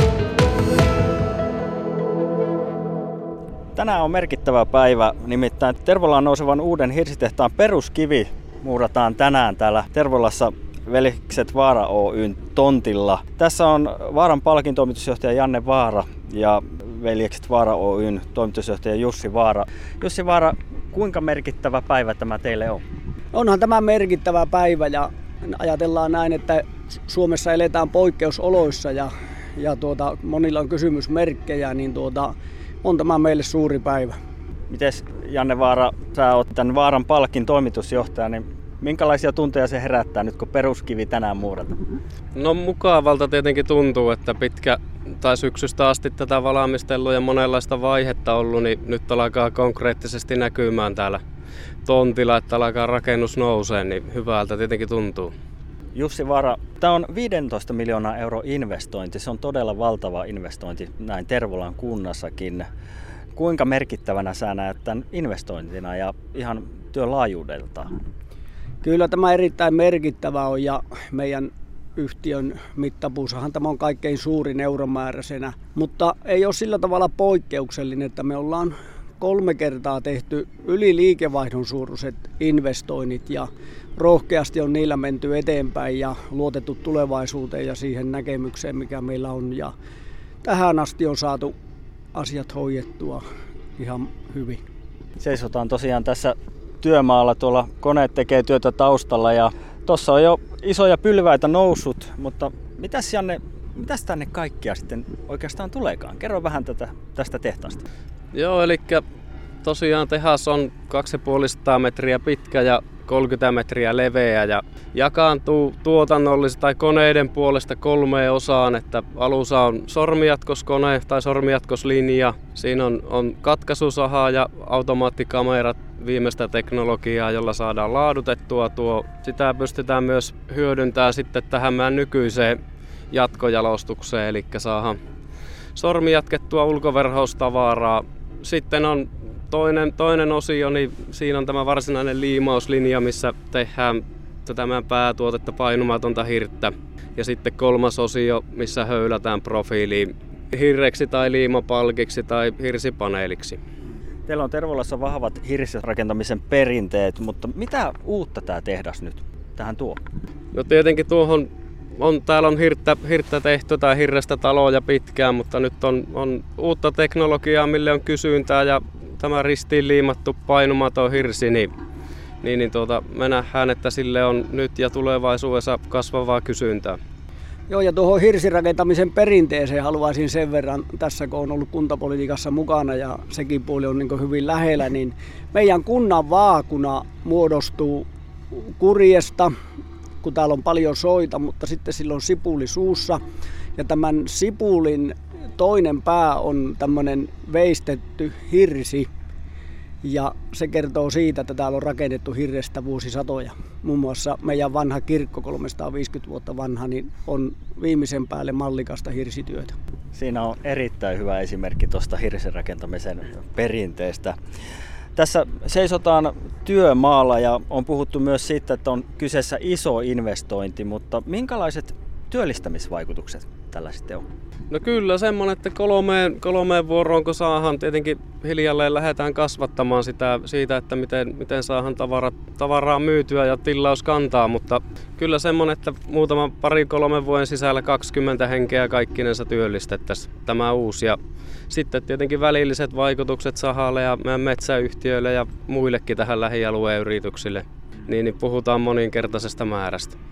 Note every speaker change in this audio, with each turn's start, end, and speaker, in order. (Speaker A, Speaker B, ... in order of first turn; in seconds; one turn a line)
Speaker A: 3.8-22.8
Speaker B: 23.3-34.1
Speaker A: 34.7-41.8
Speaker C: 42.4-51.2
Speaker C: 51.9-55.3
Speaker A: 56.0-62.7
Speaker A: 63.4-67.9
Speaker B: 68.8-89.7
Speaker B: 90.4-91.5
Speaker B: 92.1-93.2
Speaker B: 93.8-94.6
Speaker A: 95.2-107.8
Speaker C: 108.3-109.0
Speaker C: 109.6-132.6
Speaker C: 133.1-135.0
Speaker C: 135.8-153.6
Speaker A: 154.3-160.0
Speaker C: 160.5-171.7
Speaker C: 172.4-177.0
Speaker B: 177.7-189.5
Speaker B: 190.2-193.2
Speaker B: 193.8-199.1
Speaker B: 200.0-209.8
Speaker A: 210.1-214.4
Speaker A: 215.2-224.2
Speaker C: 224.7-241.2
Speaker C: 241.7-250.2